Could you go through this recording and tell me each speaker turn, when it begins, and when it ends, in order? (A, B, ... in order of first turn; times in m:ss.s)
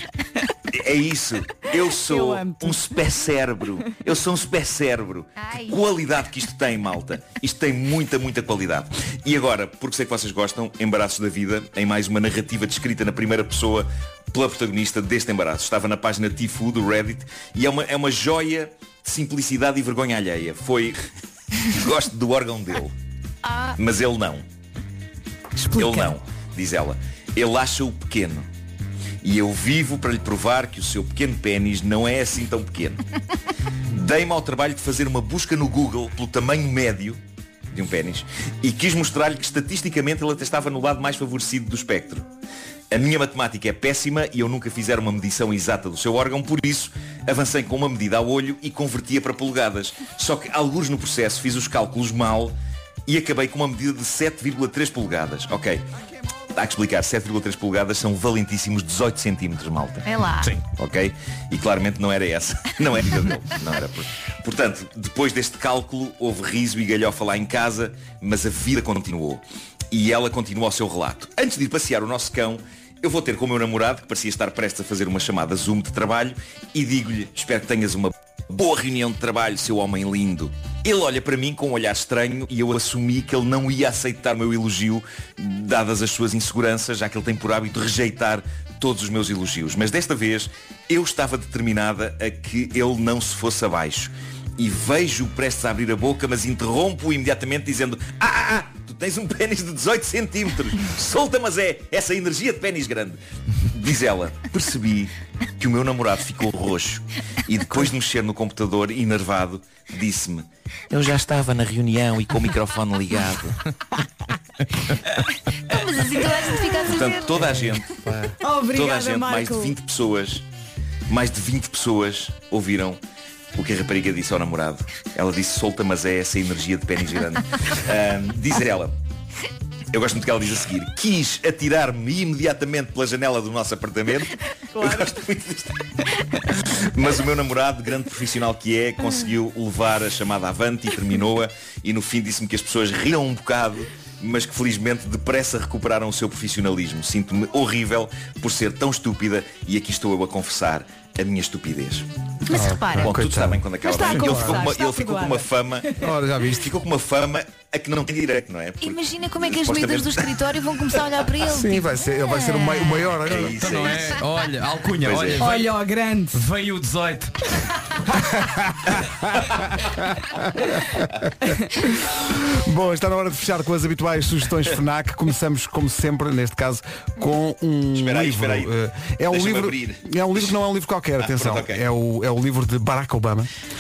0:00.7-0:21.0 A
0:01.9-0:02.8 B
0:05.4-0:05.8 C
0:21.7-0:22.9 A
0:23.4-0:23.8 C
0:23.8-0:24.4 A
0:25.6-0:26.1 B
0:25.7-0:28.5 A
0:29.2-0:33.0 A
0:33.9-0:37.2 A
0:37.7-0:42.2 A
0:42.9-0:52.6 A
0:53.1-0:55.8 A
0:56.5-1:00.1 A
1:00.1-1:00.5 C
1:00.7-1:53.6 A
1:55.7-1:57.5 C
1:56.8-2:00.4 A
1:58.4-1:59.8 B
2:01.1-2:03.0 A
2:03.6-2:08.9 A
2:09.9-2:15.8 A
2:16.9-2:32.1 A
2:32.5-2:33.3 C
2:32.5-2:33.6 D
2:32.9-2:40.3 A
2:33.8-2:35.9 B
2:34.1-2:34.6 D
2:36.0-2:36.7 D
2:38.8-2:43.1 C
2:41.4-2:43.6 D
2:43.2-2:44.1 A
2:43.5-2:45.7 E
2:45.0-2:45.4 A
2:45.4-2:46.4 B
2:46.3-2:47.3 E
2:48.5-2:51.0 D
2:51.8-3:03.5 D
2:57.9-2:58.7 A
2:59.3-3:00.1 A
3:01.2-3:01.8 A